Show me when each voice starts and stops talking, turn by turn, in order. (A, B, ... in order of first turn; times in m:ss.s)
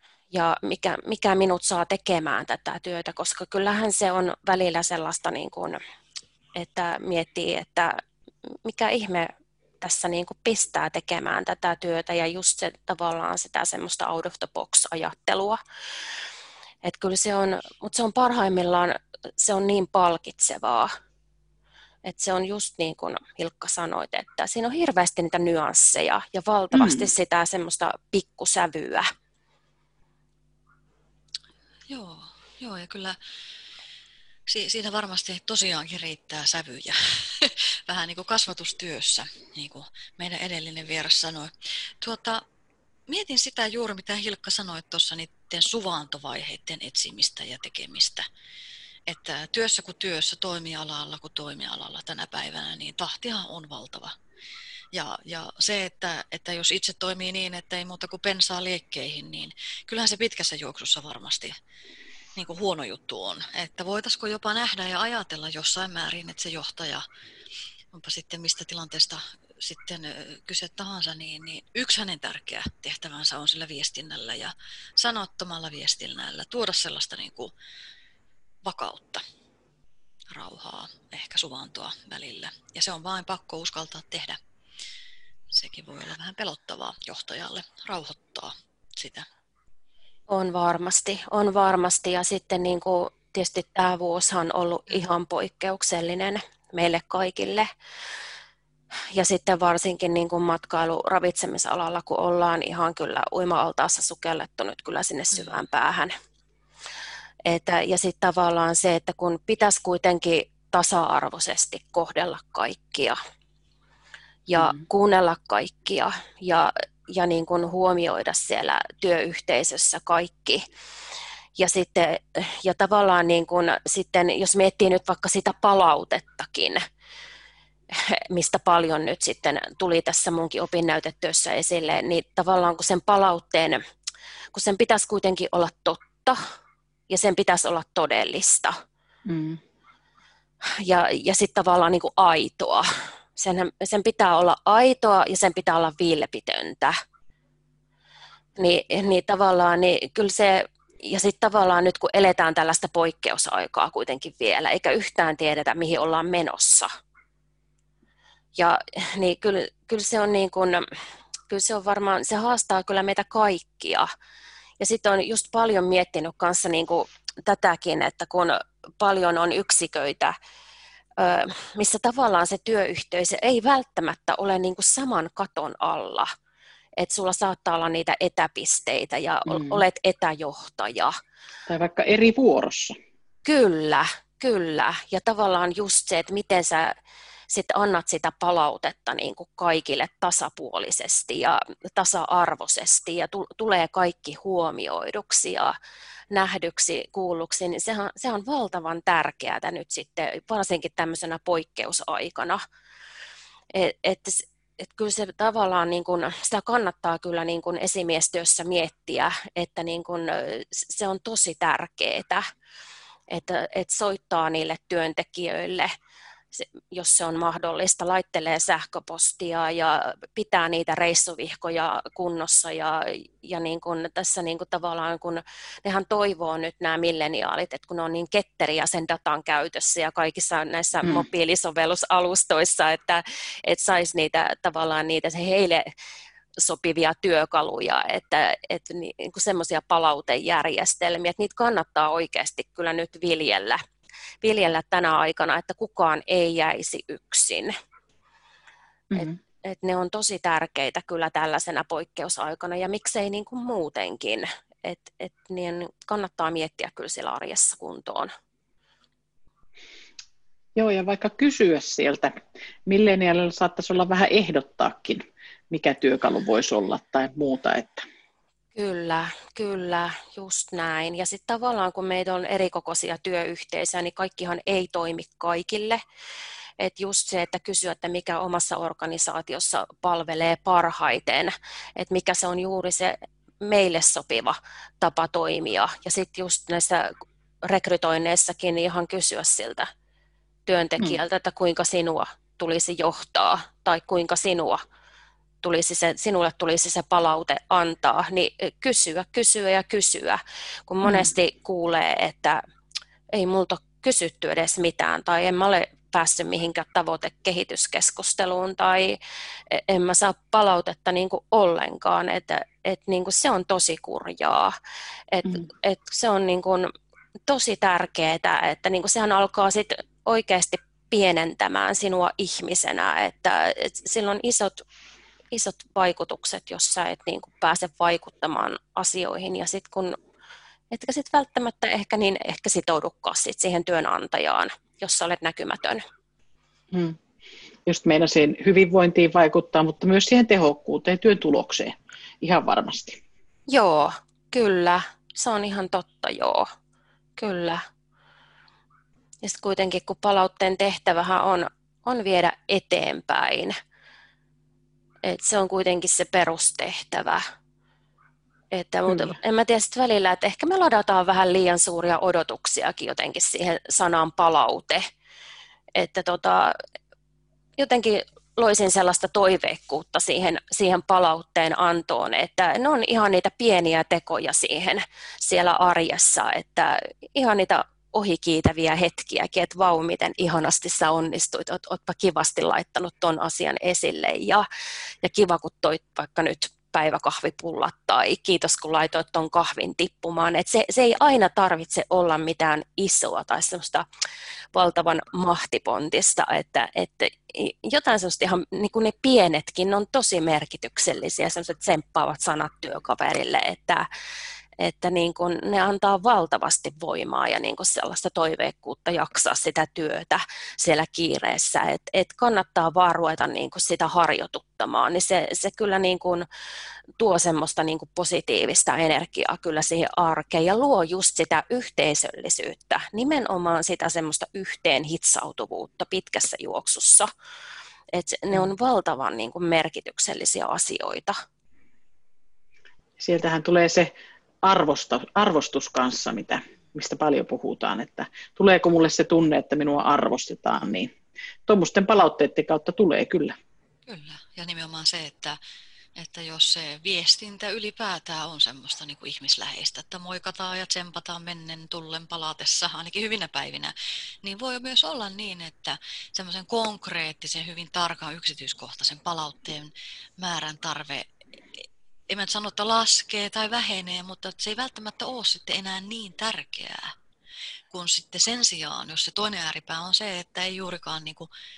0:00.3-0:05.8 A
0:06.6-0:08.0 A
0:08.6-0:15.6 A
0:16.8-0:20.9 A
0:22.0-0:29.1 A
0:26.7-0:27.1 B
0:31.9-0:33.2 C
0:34.5-0:42.4 C
0:43.1-0:48.2 C
0:49.1-0:54.2 C
0:54.9-1:01.6 C
1:02.4-1:07.0 C
1:07.9-1:17.5 C
1:18.6-1:19.2 C
1:20.3-1:24.4 C
1:25.5-1:29.3 C
1:30.3-1:37.7 A
1:39.1-1:46.1 A
1:47.5-1:53.2 A
1:54.5-2:00.6 A
2:01.6-2:06.8 A
2:07.9-2:13.8 A
2:14.5-2:16.4 A
2:17.1-2:18.8 A
2:19.3-2:19.6 B
2:20.8-2:26.9 A
2:28.6-2:36.9 A
2:38.6-2:40.9 A
2:41.5-2:44.1 A
2:44.8-2:50.4 A
2:51.2-2:56.3 A
2:57.0-3:01.2 A
2:59.5-2:59.8 B
3:01.7-3:03.0 B
3:03.5-3:07.0 A
3:07.5-3:15.8 A
3:16.3-3:22.6 A
3:23.7-3:32.4 A
3:33.3-3:36.0 A
3:36.6-3:55.9 A
3:56.6-4:03.8 A
4:04.4-4:07.7 A
4:09.1-4:09.4 B
4:09.2-4:18.3 A
4:20.8-4:28.0 B
4:28.8-4:36.0 A
4:36.8-4:47.1 A
4:47.6-4:49.9 A
4:50.7-4:54.8 A
4:55.6-5:02.6 A
5:01.0-5:01.3 B
5:03.3-5:09.2 A
5:09.7-5:14.7 A
5:15.3-5:16.9 A
5:17.5-5:24.8 A
5:25.5-5:30.2 A
5:30.9-5:36.0 A
5:36.9-5:37.2 B
5:37.9-5:43.2 B
5:43.7-5:46.7 A
5:47.4-5:47.8 A
5:49.4-5:53.8 A
5:55.2-5:57.4 A
5:58.7-6:05.0 A
5:59.1-5:59.4 B
6:06.0-6:06.7 A
6:07.8-6:24.7 A
6:25.2-6:34.1 A
6:34.7-6:44.1 A
6:44.8-6:56.5 A
6:57.2-7:07.3 A
7:08.1-7:11.4 A
7:13.2-7:14.1 B
7:14.6-7:21.1 B
7:21.7-7:23.6 B
7:24.1-7:25.6 C
7:26.2-7:47.1 C
7:47.9-7:51.5 C